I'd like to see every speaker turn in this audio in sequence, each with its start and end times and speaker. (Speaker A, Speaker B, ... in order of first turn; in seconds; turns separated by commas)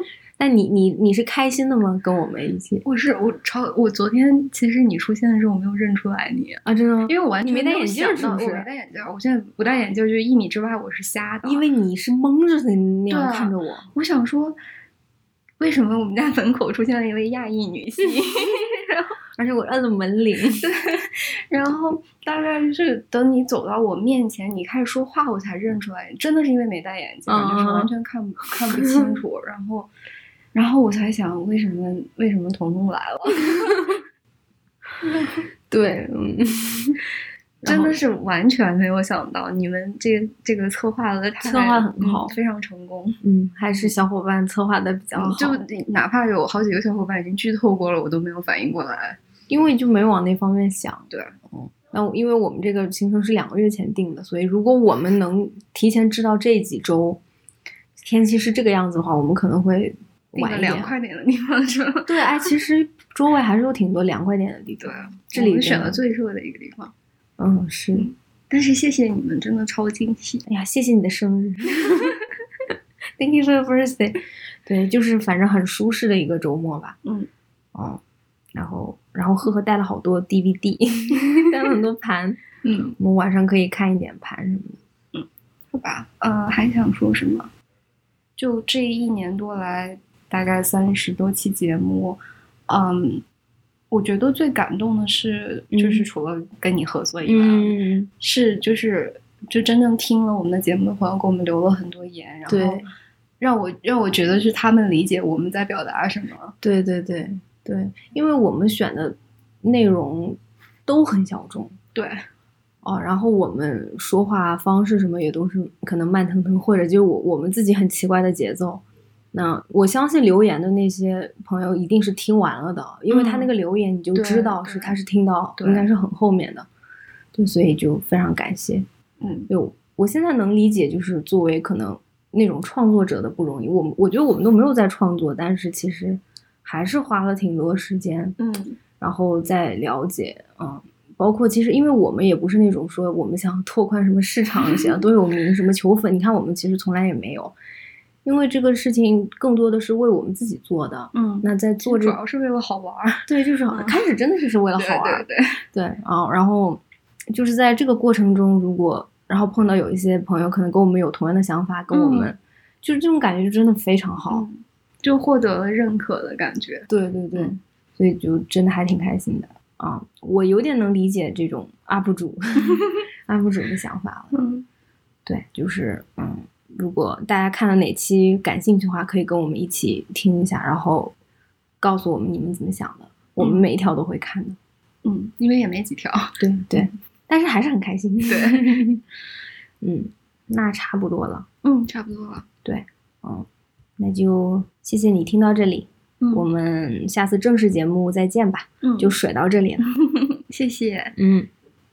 Speaker A: 0.4-2.9, Speaker B: 2.8-11.7, Speaker A: 6.7-8.7, Speaker A: 11.4-13.9, Speaker B: 13.1-14.6, Speaker B: 15.6-19.1, Speaker A: 19.4-20.7, Speaker B: 20.6-29.9, Speaker A: 27.3-27.9, Speaker A: 28.7-29.1, Speaker B: 30.5-34.0, Speaker A: 35.7-37.0, Speaker A: 37.6-38.0, Speaker B: 37.6-43.2, Speaker A: 41.4-42.3, Speaker A: 43.2-45.6, Speaker B: 45.1-49.2, Speaker A: 49.5-57.2, Speaker A: 58.0-60.9, Speaker B: 60.3-62.5, Speaker A: 62.1-66.0, Speaker B: 64.8-66.9, Speaker A: 67.4-68.1, Speaker B: 67.9-70.5, Speaker A: 70.5-72.1, Speaker A: 73.2-77.0, Speaker B: 77.0-77.3, Speaker A: 77.7-78.0, Speaker A: 78.5-82.4, Speaker B: 82.6-83.0, Speaker A: 83.0-84.8, Speaker B: 85.1-87.5, Speaker B: 88.4-93.2, Speaker B: 93.9-102.8, Speaker A: 95.7-96.1, Speaker A: 97.2-98.1, Speaker A: 102.5-102.8, Speaker B: 103.4-106.5, Speaker A: 106.6-111.8, Speaker B: 112.0-112.3, Speaker A: 112.8-126.7, Speaker B: 123.1-123.5, Speaker B: 124.1-125.0, Speaker B: 125.6-125.9, Speaker A: 127.3-128.8, Speaker B: 129.2-129.5, Speaker A: 129.5-138.4, Speaker B: 138.4-138.8, Speaker A: 139.0-147.6, Speaker A: 148.2-152.2, Speaker B: 151.1-154.0, Speaker A: 153.3-164.5, Speaker B: 154.8-155.6, Speaker B: 161.9-162.3, Speaker B: 164.3-167.5, Speaker A: 166.9-174.3, Speaker B: 174.3-174.7, Speaker A: 175.3-181.2, Speaker A: 181.8-184.6, Speaker B: 183.4-183.7, Speaker B: 185.0-186.9, Speaker A: 186.4-189.0, Speaker B: 188.3-188.8, Speaker A: 189.8-191.5, Speaker B: 191.6-192.5, Speaker A: 192.7-193.5, Speaker A: 194.0-199.9, Speaker B: 196.2-196.5, Speaker B: 198.8-199.2, Speaker B: 199.9-201.2, Speaker A: 201.2-201.5